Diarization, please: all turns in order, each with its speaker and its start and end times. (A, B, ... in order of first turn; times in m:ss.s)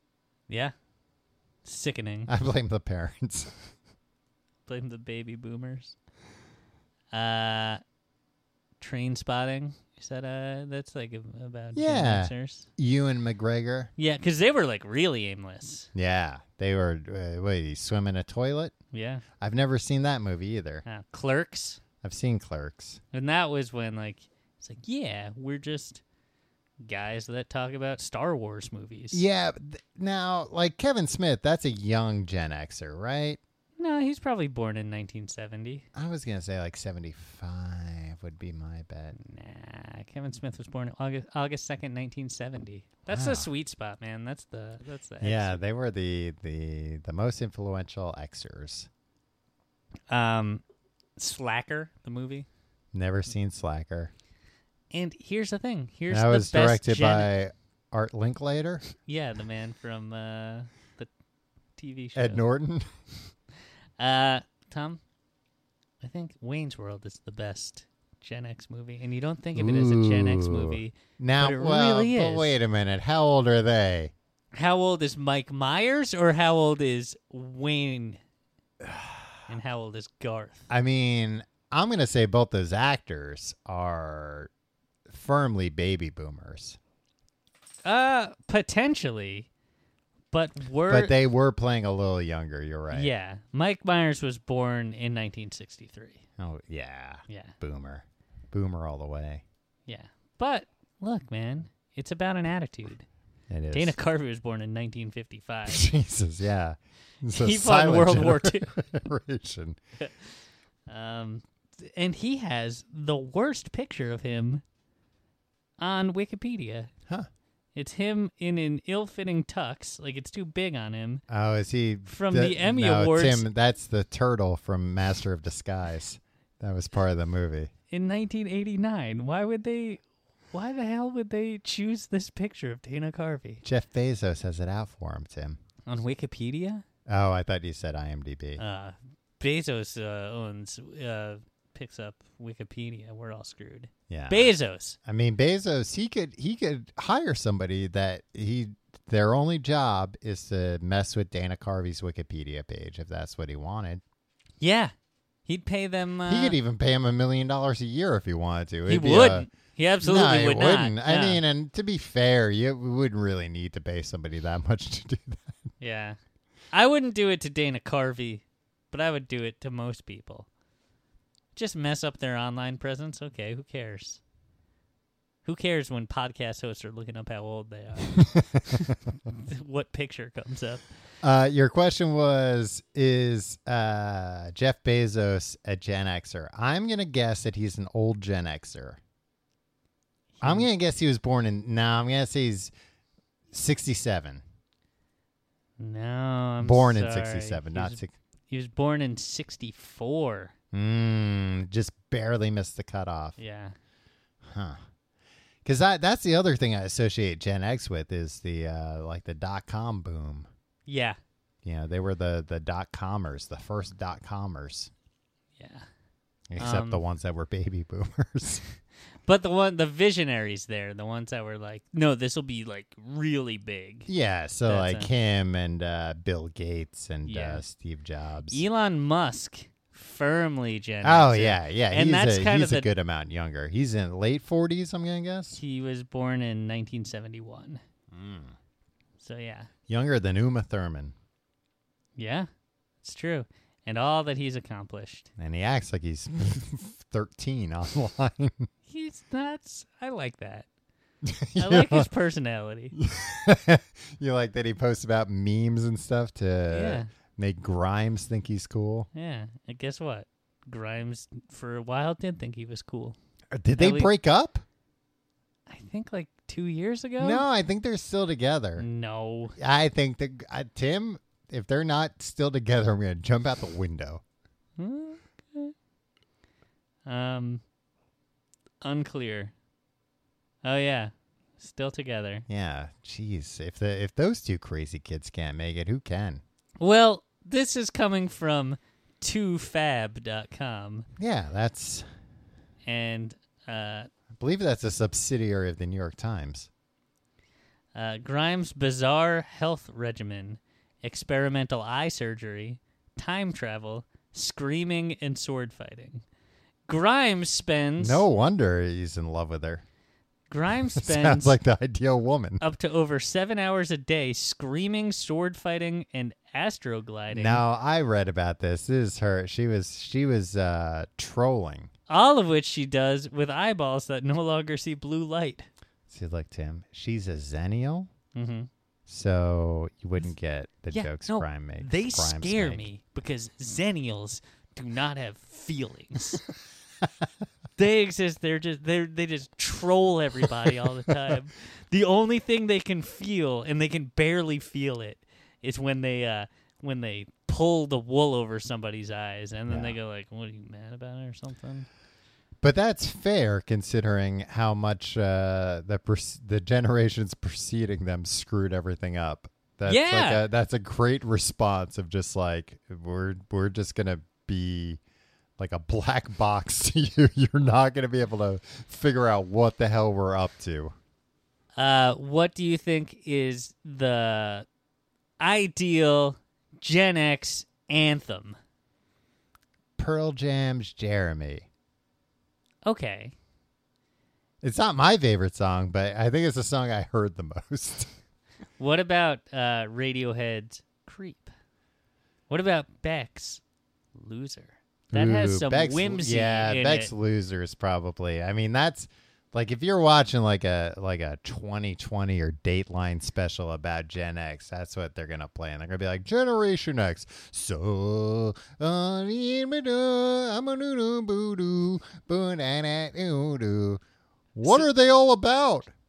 0:00.5-0:00.7 A
0:01.6-0:02.3 A
0:02.3-0:03.6 B
0:04.7-0:06.0 A
0:07.1-0:07.8 A
0:08.8-0:12.7 A
0:11.8-0:13.9 B
0:14.0-0:15.9 A
0:15.9-0:18.7 B
0:18.9-0:19.2 A
0:19.4-0:20.8 B
0:20.8-0:21.8 A
0:22.0-0:23.0 B
0:23.1-0:26.0 A
0:26.8-0:29.2 A
0:29.1-0:33.4 B
0:33.8-0:35.8 A
0:35.9-0:39.2 B
0:39.2-0:45.6 A
0:43.1-0:43.5 B
0:45.2-0:48.9 B
0:50.1-0:50.6 A
0:51.2-0:52.5 A
0:52.9-0:54.1 B
0:54.9-0:57.3 A
0:56.1-0:58.8 B
0:59.1-1:01.1 A
1:01.8-1:02.4 A
1:02.2-1:02.9 B
1:04.0-1:05.0 A
1:06.0-1:12.6 A
1:09.6-1:14.1 B
1:14.5-1:18.2 A
1:18.8-1:19.4 B
1:19.5-1:20.7 A
1:20.7-1:24.5 B
1:25.1-1:26.8 B
1:27.8-1:29.5 A
1:30.3-1:31.1 A
1:30.9-1:33.1 B
1:32.9-1:36.2 A
1:36.4-1:39.4 B
1:37.3-1:37.5 A
1:39.9-1:43.1 A
1:43.5-1:44.0 B
1:43.7-1:45.9 A
1:45.7-1:49.8 B
1:47.3-1:48.7 A
1:50.0-1:50.3 A
1:50.9-1:54.6 A
1:55.8-1:56.9 A
1:57.8-2:01.2 A
2:01.3-2:07.7 B
2:02.1-2:03.5 A
2:07.9-2:13.6 A
2:13.6-2:15.6 B
2:15.9-2:16.8 A
2:17.1-2:18.6 B
2:18.6-2:25.0 A
2:24.1-2:24.5 B
2:25.0-2:34.0 B
2:34.6-2:34.9 A
2:35.5-2:36.6 A
2:36.3-2:39.5 B
2:38.9-2:41.4 A
2:40.0-2:45.6 B
2:45.8-2:46.2 A
2:46.7-2:50.5 A
2:51.6-2:54.2 A
2:55.4-3:00.8 A
2:58.2-2:58.9 B
3:01.2-3:09.0 B
3:10.4-3:10.7 A
3:10.4-3:12.7 B
3:13.5-3:14.4 B
3:15.8-3:20.5 A
3:16.6-3:18.1 B
3:20.7-3:23.4 B
3:23.4-3:23.8 A
3:24.4-3:24.8 B
3:25.6-3:30.5 B
3:30.9-3:31.2 A
3:31.6-3:34.9 B
3:35.6-3:35.9 A
3:36.5-3:38.6 B
3:36.6-3:37.0 A
3:39.2-3:44.1 A
3:44.1-3:48.6 B
3:44.7-3:45.1 A
3:47.3-3:47.6 A
3:48.5-3:52.9 A
3:51.0-3:55.6 B
3:55.5-3:57.8 A
3:58.1-3:58.6 B
3:59.2-3:59.7 A
3:59.9-4:01.2 B
4:02.2-4:02.5 A
4:03.0-4:05.3 A
4:05.4-4:08.7 B
4:08.9-4:10.7 A
4:11.2-4:12.1 B
4:11.6-4:13.0 A
4:13.0-4:19.1 B
4:16.7-4:17.1 A
4:19.1-4:23.2 A
4:23.5-4:24.6 B
4:23.8-4:24.1 A
4:25.7-4:27.4 A
4:27.2-4:28.9 B
4:28.8-4:29.6 A
4:29.6-4:34.2 B
4:34.8-4:35.7 A
4:37.1-4:37.6 A
4:38.8-4:39.5 A
4:40.6-4:42.4 A
4:42.5-4:46.4 B
4:46.8-4:51.1 A
4:51.2-4:52.1 B
4:52.8-4:54.1 A
4:54.4-4:56.7 B
4:57.9-5:06.2 A
5:06.9-5:08.2 A
5:08.0-5:09.8 B
5:10.5-5:11.6 A
5:11.0-5:12.6 B
5:12.6-5:17.6 A
5:17.3-5:21.9 B
5:22.1-5:25.7 A
5:26.1-5:28.1 B
5:28.4-5:28.7 A
5:29.1-5:32.9 B
5:30.9-5:36.4 A
5:37.8-5:51.9 A
5:49.7-5:50.0 B
5:52.6-6:05.0 B
5:59.9-6:00.4 A
6:05.6-6:11.0 B
6:11.8-6:14.7 A
6:15.4-6:18.6 A
6:20.0-6:21.7 B
6:22.8-6:23.3 A
6:24.6-6:28.1 B
6:28.8-6:31.5 A
6:32.5-6:33.6 A
6:34.2-6:37.1 A
6:35.1-6:54.0 B
6:54.6-6:55.9 B